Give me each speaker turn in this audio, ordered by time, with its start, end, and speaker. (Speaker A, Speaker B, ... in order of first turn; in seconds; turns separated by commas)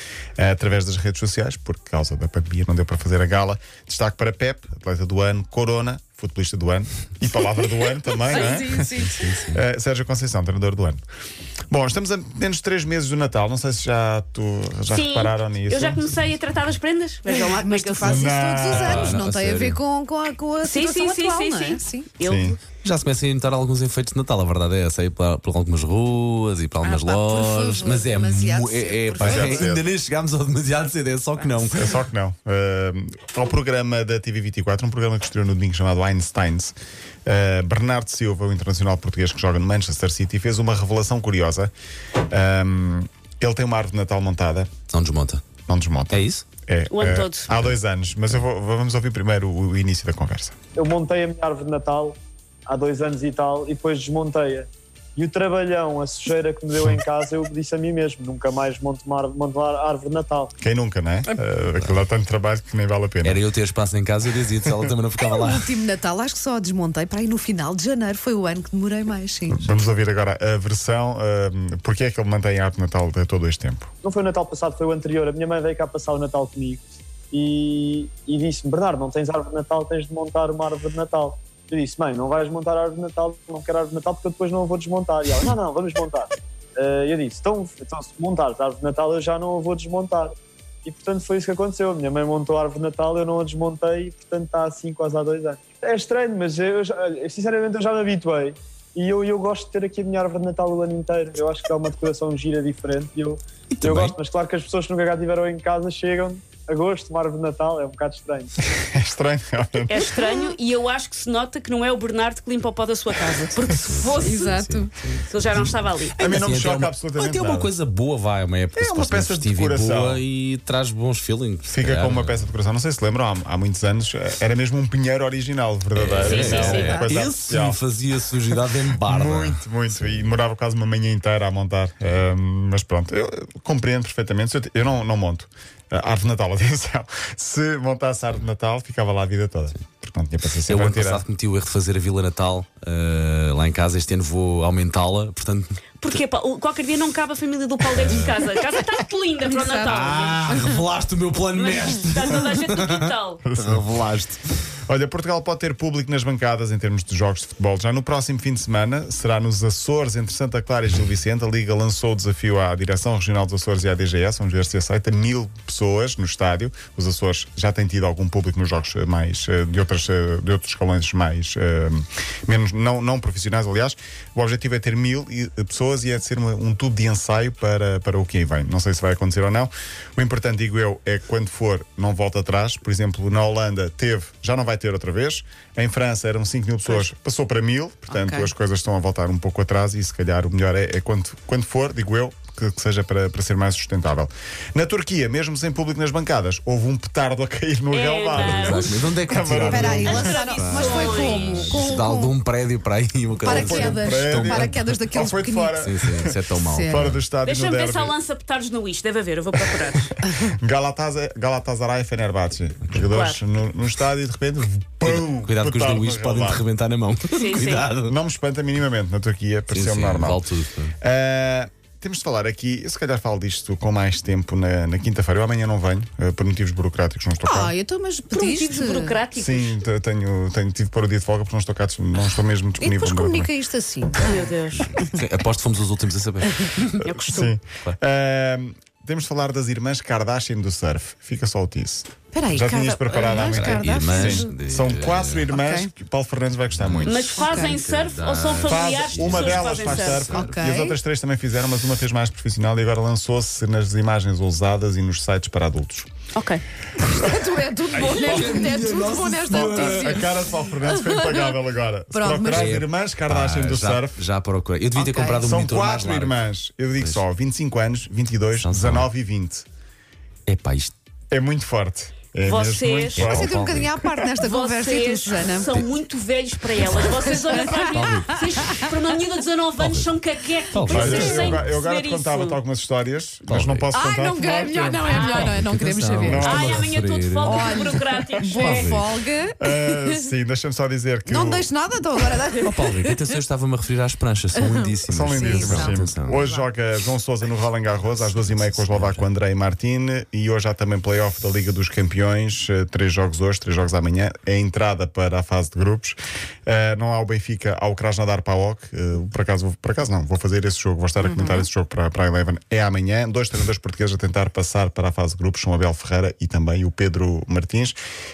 Speaker A: 0.4-8.9, Speaker B: 8.3-9.2, Speaker C: 8.7-9.6, Speaker A: 9.5-11.0, Speaker A: 11.7-16.1, Speaker D: 14.9-18.3, Speaker B: 17.3-22.1, Speaker A: 18.0-19.2, Speaker C: 18.7-19.8, Speaker D: 20.6-22.6, Speaker A: 22.2-22.6, Speaker C: 22.7-31.9, Speaker B: 26.8-29.8, Speaker A: 29.2-29.8, Speaker A: 31.7-36.7, Speaker A: 37.2-41.7, Speaker A: 42.3-44.7, Speaker C: 44.9-45.4, Speaker A: 45.7-50.5, Speaker C: 46.1-46.5, Speaker D: 46.9-47.5, Speaker E: 50.8-60.5, Speaker A: 60.6-63.4, Speaker C: 61.7-62.0, Speaker C: 63.2-65.8, Speaker A: 64.6-64.9, Speaker B: 65.2-69.7, Speaker A: 69.5-73.9, Speaker E: 74.0-90.3, Speaker E: 90.8-108.5, Speaker C: 103.8-104.1, Speaker A: 108.9-110.1, Speaker D: 109.9-114.5, Speaker C: 113.9-122.5, Speaker B: 114.2-114.9, Speaker D: 115.3-116.2, Speaker A: 116.2-117.7, Speaker A: 118.7-120.2, Speaker A: 121.6-127.8, Speaker C: 125.9-130.3, Speaker D: 126.2-127.0, Speaker B: 126.4-127.2, Speaker A: 129.1-141.2, Speaker C: 140.7-145.8, Speaker D: 146.0-150.5, Speaker C: 147.9-148.8, Speaker B: 149.4-150.8, Speaker C: 149.8-154.4, Speaker D: 151.5-153.4, Speaker A: 153.4-154.0, Speaker A: 154.9-200.4, Speaker B: 188.1-188.5, Speaker D: 197.9-199.1, Speaker C: 198.3-205.0, Speaker B: 199.6-202.4, Speaker D: 200.1-201.9, Speaker B: 203.4-205.7, Speaker A: 203.5-206.3, Speaker C: 205.7-207.2, Speaker B: 206.5-207.1, Speaker A: 206.9-208.1, Speaker D: 207.4-210.1, Speaker A: 209.7-216.6, Speaker D: 213.1-213.4, Speaker C: 215.0-218.1, Speaker D: 217.3-217.9, Speaker A: 218.0-220.4, Speaker C: 219.7-220.9, Speaker A: 221.0-227.7, Speaker B: 227.4-229.2, Speaker D: 228.3-229.8, Speaker A: 229.3-233.5, Speaker B: 232.8-235.2, Speaker D: 234.2-234.9, Speaker C: 234.7-237.0, Speaker D: 237.0-237.5, Speaker A: 237.3-247.3, Speaker B: 242.3-244.5, Speaker C: 243.3-245.5, Speaker B: 245.5-245.9, Speaker C: 246.7-250.6, Speaker D: 247.0-250.2, Speaker B: 247.4-247.8, Speaker A: 248.7-256.1, Speaker B: 249.8-251.0, Speaker D: 256.3-256.6, Speaker B: 257.0-261.5, Speaker C: 257.9-260.2, Speaker A: 257.9-258.8, Speaker A: 259.4-264.2, Speaker B: 262.1-262.8, Speaker C: 262.5-266.5, Speaker B: 264.9-265.5, Speaker A: 265.4-269.6, Speaker C: 268.6-269.1, Speaker C: 270.5-270.9, Speaker A: 271.3-273.9, Speaker D: 272.4-273.3, Speaker C: 273.1-274.3, Speaker B: 273.2-275.9, Speaker D: 274.4-282.6, Speaker C: 276.9-278.3, Speaker B: 277.0-278.9, Speaker C: 279.8-280.1, Speaker C: 280.7-281.7, Speaker B: 280.8-281.5, Speaker A: 280.9-285.2, Speaker C: 283.5-283.9, Speaker B: 283.9-286.6, Speaker D: 285.0-285.5, Speaker C: 285.2-287.9, Speaker A: 286.2-286.8, Speaker D: 286.4-288.9, Speaker B: 287.4-290.2, Speaker A: 288.2-288.6, Speaker C: 288.5-289.1, Speaker A: 289.6-291.7, Speaker B: 291.3-293.3, Speaker C: 292.6-296.4, Speaker B: 294.5-296.6, Speaker A: 295.1-318.0, Speaker C: 298.3-299.2, Speaker B: 311.2-311.6